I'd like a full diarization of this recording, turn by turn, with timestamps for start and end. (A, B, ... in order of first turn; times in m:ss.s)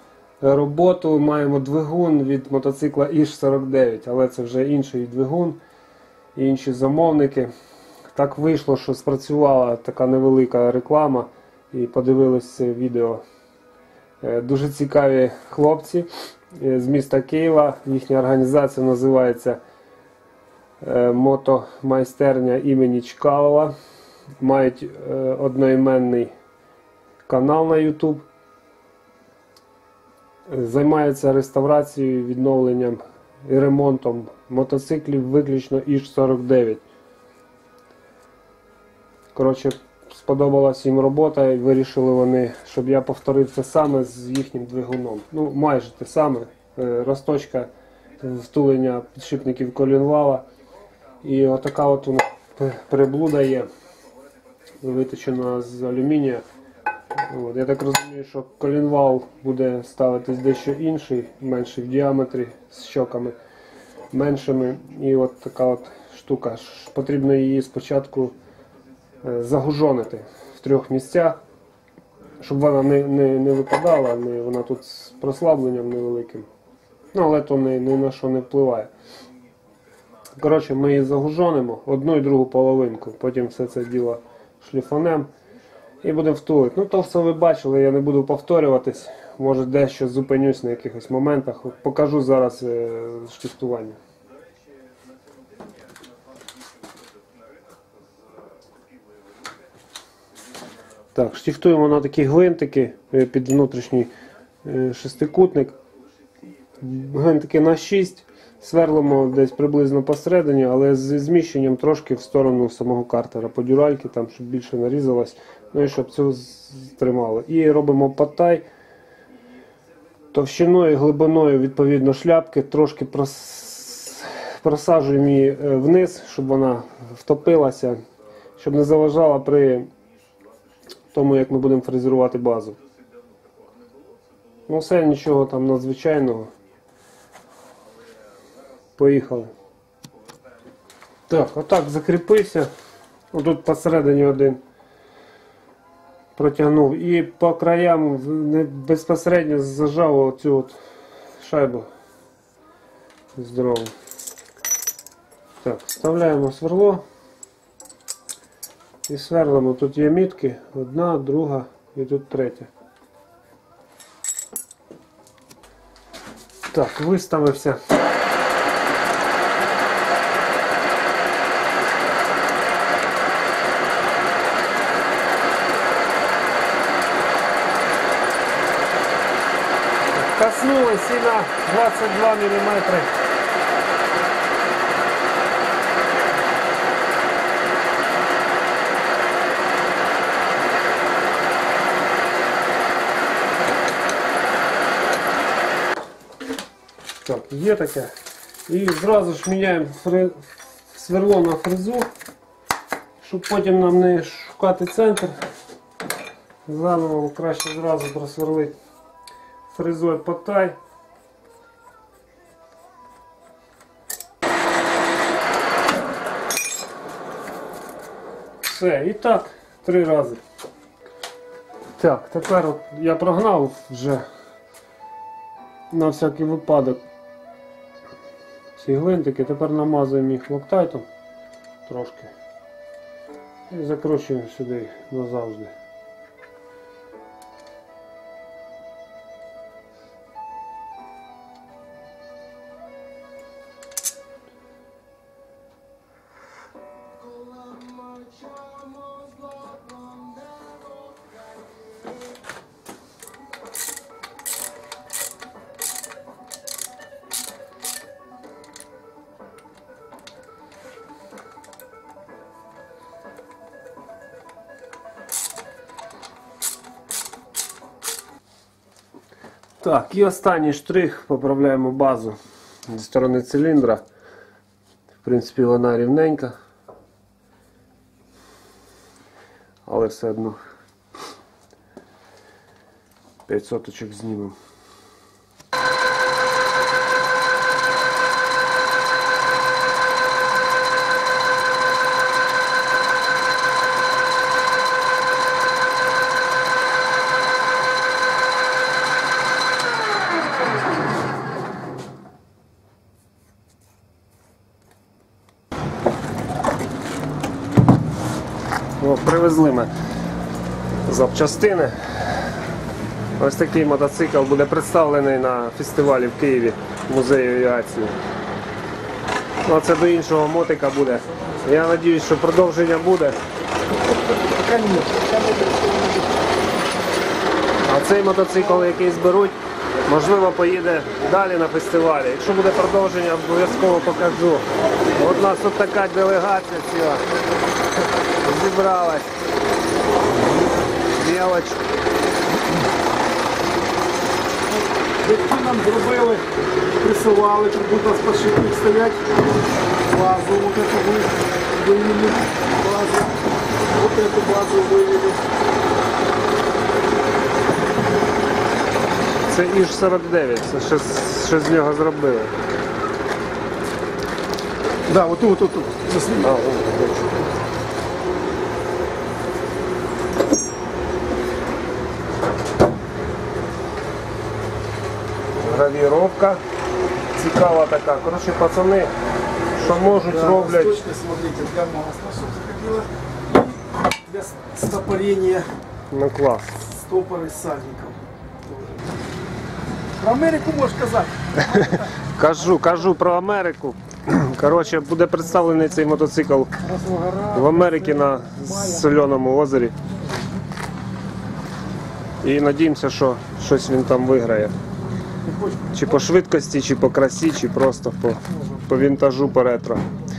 0:00.4-0:05.6 A
0:06.4-0:07.5 A
0:08.1-0:13.2 A
0:14.2-0:19.6 A
0:20.8-0:23.7 A
0:24.4-0:26.3 A
0:27.3-0:28.2 A
0:30.5-0:36.8 A
0:39.3-0:47.7 A
0:48.2-0:50.4 A
0:51.2-0:53.7 A
0:54.8-0:56.4 A
0:57.2-1:03.4 A
1:04.1-1:08.4 A
1:09.2-1:11.4 A
1:12.4-1:16.5 A
1:17.1-1:18.9 A
1:20.4-1:25.3 A
1:26.0-1:34.0 A
1:41.2-1:44.1 A
1:44.6-1:45.8 A
1:46.8-1:58.6 A
2:00.3-2:08.0 A
2:08.6-2:09.9 A
2:11.1-2:12.8 A
2:14.7-2:16.5 A
2:19.0-2:19.5 A
2:21.3-2:22.7 A
2:23.3-2:24.6 A
2:26.4-2:30.8 A
2:31.4-2:31.9 A
2:33.4-2:33.9 A
2:35.6-2:37.0 A
2:39.1-2:42.7 A
2:46.7-2:47.8 A
3:00.1-3:03.1 A
3:17.2-3:18.1 A
3:18.7-3:22.1 A
3:23.2-3:25.4 A
3:26.7-3:28.7 A
3:29.7-3:30.8 A
3:38.6-3:40.4 A
3:42.0-3:44.2 A
3:45.9-3:47.0 A
3:48.8-3:51.1 A
3:51.8-3:52.3 A
3:53.7-3:55.7 A
4:29.8-4:32.4 A
4:32.9-4:34.0 A
4:35.2-4:36.6 A
4:39.8-4:40.6 A
4:43.5-4:44.6 A
5:09.0-5:09.9 A
5:11.0-5:12.0 A
5:13.4-5:18.2 A
5:19.6-5:23.4 A
5:24.5-5:26.3 B
5:27.8-5:37.2 A
5:38.4-5:39.3 A
5:41.1-5:41.8 A
5:45.2-5:46.5 B
5:47.0-5:49.4 B
5:50.0-5:53.4 B
5:53.9-5:55.4 B
5:59.5-6:02.5 A
6:05.1-6:06.5 B
6:06.4-6:07.3 A
6:15.6-6:16.6 A
6:17.4-6:19.1 A
6:19.8-6:21.0 A
6:20.1-6:25.7 B
6:26.1-6:26.8 A
6:26.8-6:29.0 B
6:30.2-6:32.1 B
6:31.6-6:36.8 A
6:36.8-6:38.2 B
6:37.5-6:40.0 A
6:42.4-6:44.7 A
6:45.5-6:45.9 B
6:45.9-6:50.0 A